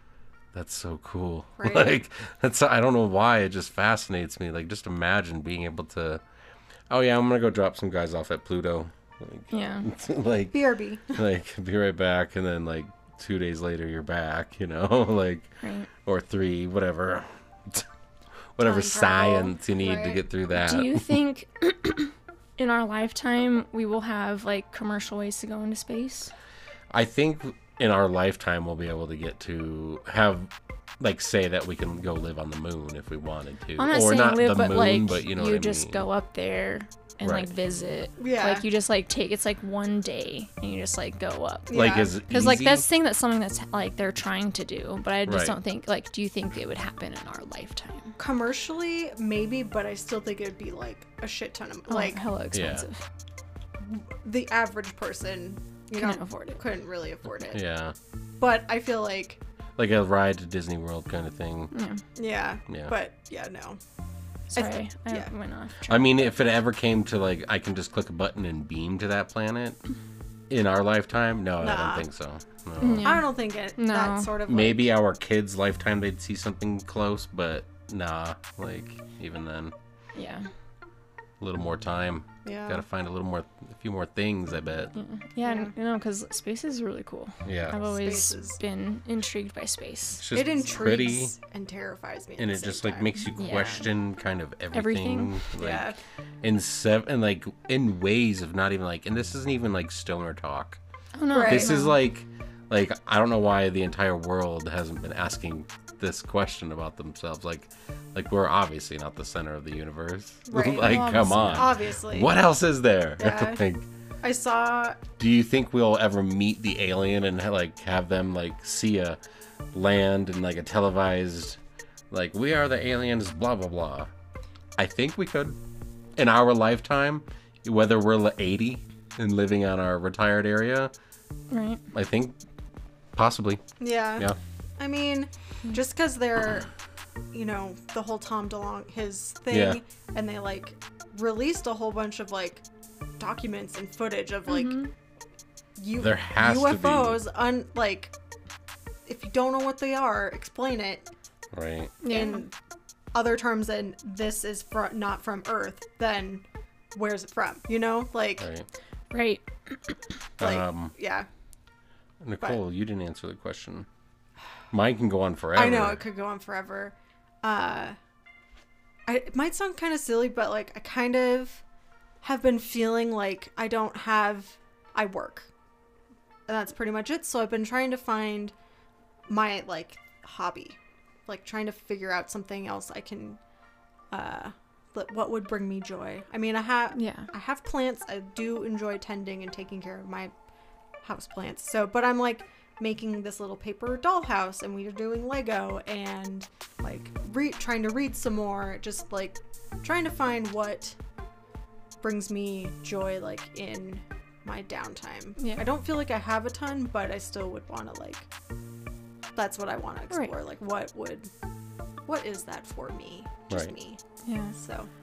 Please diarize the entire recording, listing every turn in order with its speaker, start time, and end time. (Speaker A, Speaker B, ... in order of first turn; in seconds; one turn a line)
Speaker A: 0.5-6.2
Speaker B: 1.6-1.9
Speaker A: 6.9-10.6
Speaker C: 9.5-9.9
Speaker B: 10.5-11.2
Speaker A: 11.1-17.9
Speaker C: 15.6-15.9
Speaker A: 18.6-21.1
Speaker B: 18.6-20.2
Speaker C: 20.5-26.3
Speaker A: 26.9-36.0
Speaker C: 33.8-48.1
Speaker A: 37.2-37.5
Speaker B: 38.2-38.6
Speaker B: 41.7-42.1
Speaker A: 41.7-42.9
Speaker A: 45.2-45.5
Speaker B: 48.2-52.2
Speaker C: 51.9-53.0
Speaker A: 52.5-52.8
Speaker B: 53.8-57.6
Speaker C: 56.0-56.6
Speaker A: 57.4-57.9
Speaker B: 58.4-59.4
Speaker A: 59.8-61.7
Speaker C: 61.7-62.0
Speaker B: 62.1-63.8
Speaker A: 62.7-62.9
Speaker C: 64.5-66.2
Speaker B: 64.5-65.3
Speaker A: 65.9-69.8
Speaker A: 70.5-73.2
Speaker B: 71.6-72.0
Speaker C: 72.8-74.3
Speaker B: 73.0-74.9
Speaker A: 74.5-79.7
Speaker C: 80.2-80.5
Speaker A: 81.4-84.9
Speaker B: 82.4-82.8
Speaker C: 84.9-90.2
Speaker B: 85.4-85.7
Speaker A: 87.4-87.8
Speaker B: 87.7-88.6
Speaker A: 90.2-91.3
Speaker B: 90.3-93.1
Speaker A: 92.4-100.8
Speaker C: 93.3-93.8
Speaker C: 94.7-95.4
Speaker B: 95.5-96.0
Speaker C: 101.1-102.0
Speaker B: 101.3-101.8
Speaker A: 101.4-113.8
Speaker B: 110.5-112.3
Speaker C: 110.8-111.7
Speaker B: 113.2-113.6
Speaker B: 114.2-115.0
Speaker A: 115.2-119.2
Speaker A: 119.7-121.6
Speaker A: 122.1-124.1
Speaker A: 124.8-125.6
Speaker A: 126.2-130.9
Speaker C: 131.5-131.8
Speaker A: 131.9-132.3
Speaker A: 133.1-133.6
Speaker B: 133.8-134.3
Speaker B: 134.8-136.7
Speaker B: 137.3-142.6
Speaker A: 139.5-139.8
Speaker B: 143.2-144.8
Speaker C: 144.5-144.9
Speaker B: 145.8-148.1
Speaker A: 145.9-147.2
Speaker B: 149.1-151.1
Speaker A: 151.5-151.9
Speaker C: 152.0-152.4
Speaker B: 152.1-152.5
Speaker B: 153.1-156.4
Speaker B: 156.9-158.5
Speaker A: 158.4-158.7
Speaker C: 159.1-160.0
Speaker A: 160.4-160.9
Speaker B: 160.4-161.3
Speaker A: 162.2-163.9
Speaker A: 164.7-166.0
Speaker B: 165.5-167.9
Speaker B: 169.1-171.6
Speaker B: 172.2-175.5
Speaker B: 176.5-178.5
Speaker B: 179.3-183.4
Speaker B: 184.1-190.3
Speaker C: 186.9-187.3
Speaker B: 191.0-200.9
Speaker B: 202.0-208.3
Speaker C: 205.4-205.6
Speaker B: 209.3-211.3
Speaker B: 212.1-214.0
Speaker C: 214.2-214.6
Speaker B: 214.6-214.9